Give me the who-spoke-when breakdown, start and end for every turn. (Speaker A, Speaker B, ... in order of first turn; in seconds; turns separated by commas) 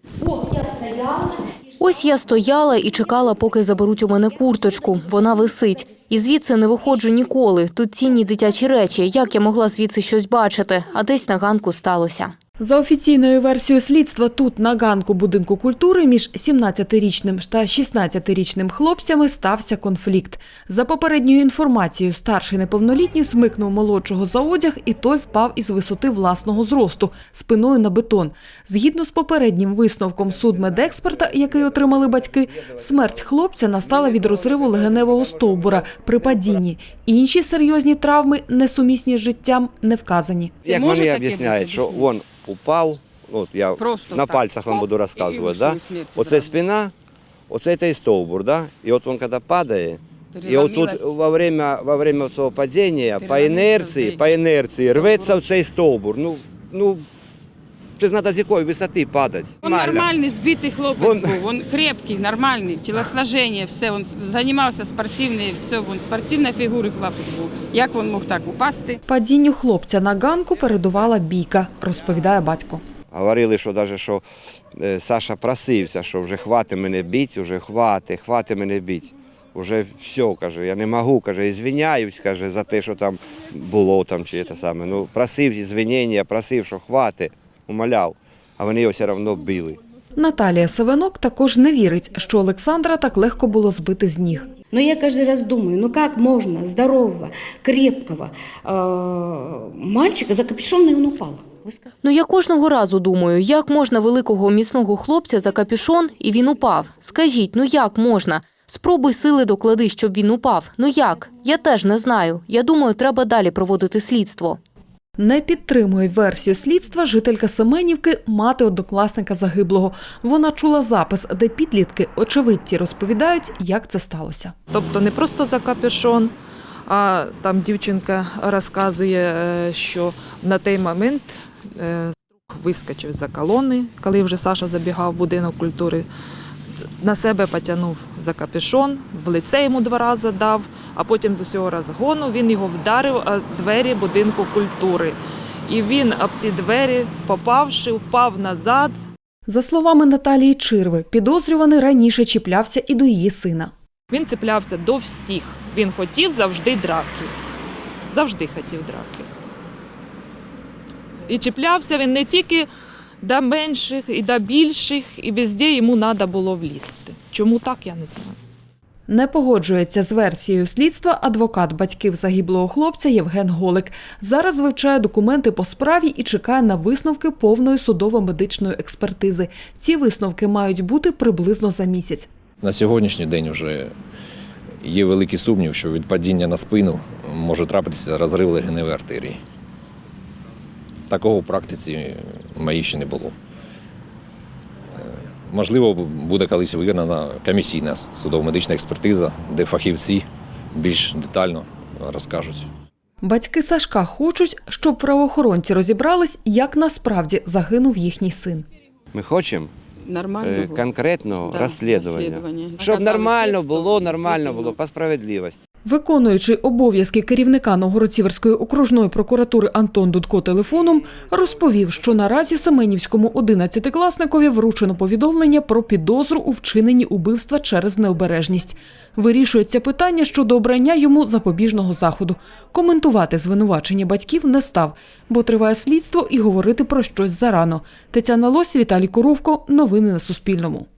Speaker A: 0.3-1.2, Speaker B: 1.8-12.3, Speaker C: 12.6-40.6, Speaker D: 34.1-35.0, Speaker D: 40.6-46.9, Speaker E: 40.7-42.1, Speaker E: 43.8-46.6, Speaker D: 47.5-57.0, Speaker E: 50.3-51.1, Speaker E: 53.2-54.3, Speaker E: 54.9-55.4, Speaker D: 58.0-60.1, Speaker E: 59.6-69.0, Speaker D: 60.9-61.4, Speaker C: 69.0-72.8, Speaker D: 73.1-74.2, Speaker D: 74.7-89.8, Speaker C: 90.2-94.5, Speaker A: 94.7-101.9, Speaker B: 102.0-114.6, Speaker C: 115.2-124.5, Speaker F: 124.7-126.3, Speaker F: 126.9-136.1, Speaker F: 136.8-148.9, Speaker C: 149.5-153.7, Speaker F: 154.1-157.3, Speaker F: 158.1-159.3, Speaker F: 161.2-162.7, Speaker F: 163.2-168.4, Speaker C: 169.1-182.3, Speaker G: 182.6-183.9, Speaker G: 184.8-189.4, Speaker G: 191.1-193.3, Speaker G: 195.0-202.7, Speaker C: 203.2-208.7, Speaker D: 209.1-209.7, Speaker E: 210.0-210.8, Speaker D: 210.4-215.6, Speaker E: 211.4-214.8, Speaker C: 215.8-240.9